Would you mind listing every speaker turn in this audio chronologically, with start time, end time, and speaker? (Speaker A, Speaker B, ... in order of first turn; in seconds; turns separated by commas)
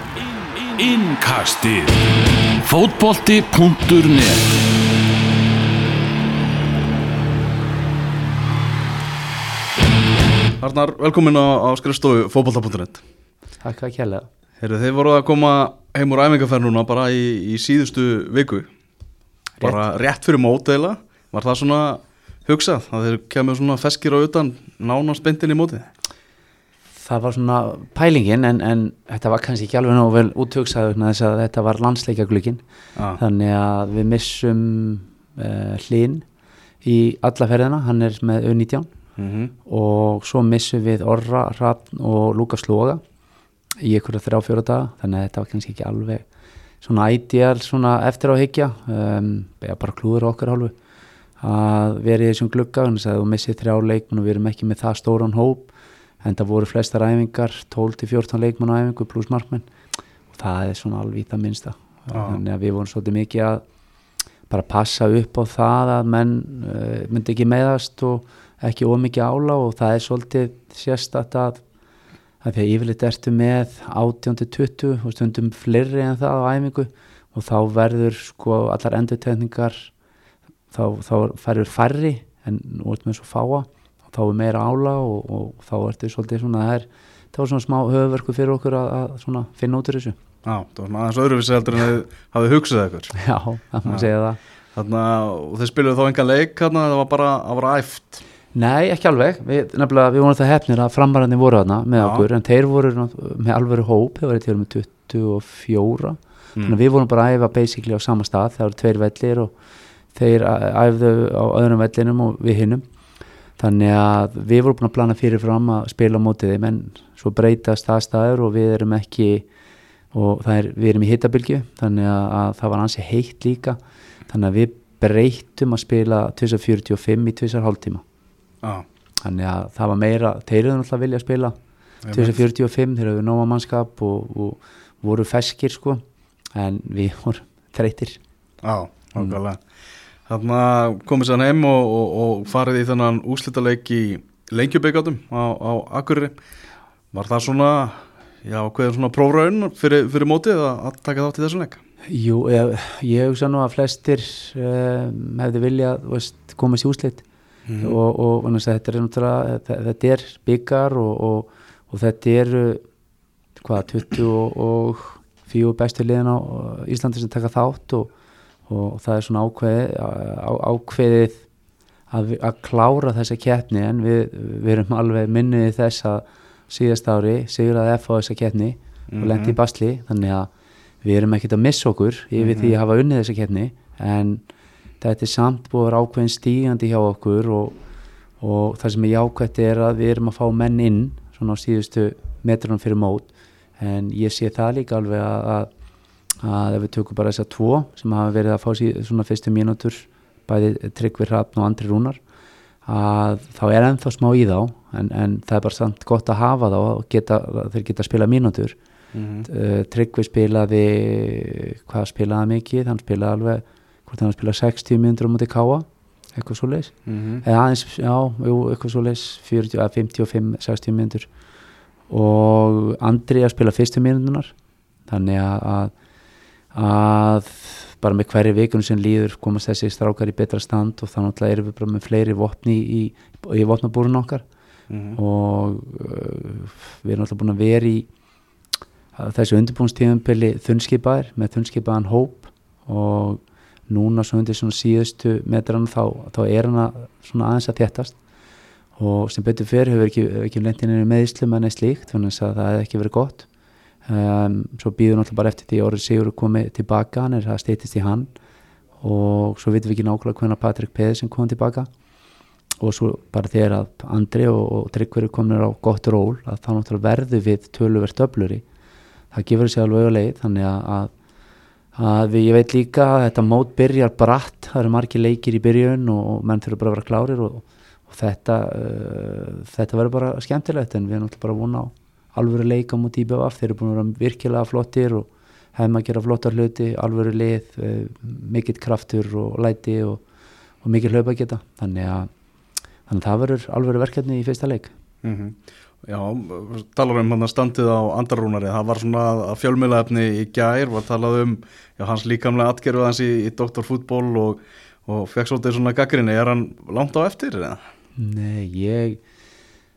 Speaker A: 0.7-2.0, Speaker A: 2.6-4.5, Speaker B: 10.6-13.0, Speaker C: 13.6-14.3, Speaker B: 14.6-18.7, Speaker B: 19.6-25.9, Speaker C: 27.0-32.6, Speaker B: 33.0-33.2, Speaker C: 33.2-36.2, Speaker C: 36.8-38.9, Speaker B: 39.2-39.5, Speaker C: 39.6-43.0, Speaker C: 43.8-46.2, Speaker C: 46.8-50.7, Speaker C: 51.4-59.7, Speaker C: 60.3-63.6, Speaker B: 62.1-62.4, Speaker C: 64.5-71.6, Speaker C: 72.4-79.9, Speaker C: 80.7-90.2, Speaker B: 90.4-93.2, Speaker C: 93.1-94.4, Speaker B: 94.7-98.2, Speaker C: 98.5-109.5, Speaker B: 102.0-102.2, Speaker C: 110.1-112.8, Speaker C: 113.6-119.5, Speaker C: 120.1-128.0, Speaker C: 129.2-131.6, Speaker B: 132.0-132.4, Speaker C: 132.1-136.0, Speaker C: 136.5-138.2, Speaker B: 138.6-139.6, Speaker B: 140.3-146.3, Speaker B: 147.1-151.8, Speaker C: 152.1-157.2, Speaker B: 157.7-158.0, Speaker C: 157.8-162.8, Speaker C: 163.6-168.1, Speaker C: 168.7-171.4, Speaker C: 172.1-180.5, Speaker B: 179.1-179.6, Speaker C: 181.0-184.4, Speaker B: 182.4-182.8, Speaker C: 185.0-187.8, Speaker C: 188.4-195.7, Speaker C: 196.4-202.2, Speaker C: 202.8-208.8, Speaker B: 209.1-209.5, Speaker C: 209.4-221.3, Speaker B: 217.1-217.4, Speaker C: 222.1-224.5, Speaker C: 225.1-225.9, Speaker C: 226.7-234.4, Speaker B: 234.9-235.2, Speaker C: 235.1-238.1, Speaker C: 239.1-248.2, Speaker C: 249.0-253.5, Speaker C: 254.0-258.3, Speaker C: 259.0-261.9, Speaker C: 262.8-268.6, Speaker C: 269.3-271.1, Speaker C: 271.9-290.2, Speaker C: 290.8-292.3, Speaker C: 293.1-294.9, Speaker B: 295.2-307.8, Speaker C: 308.1-309.2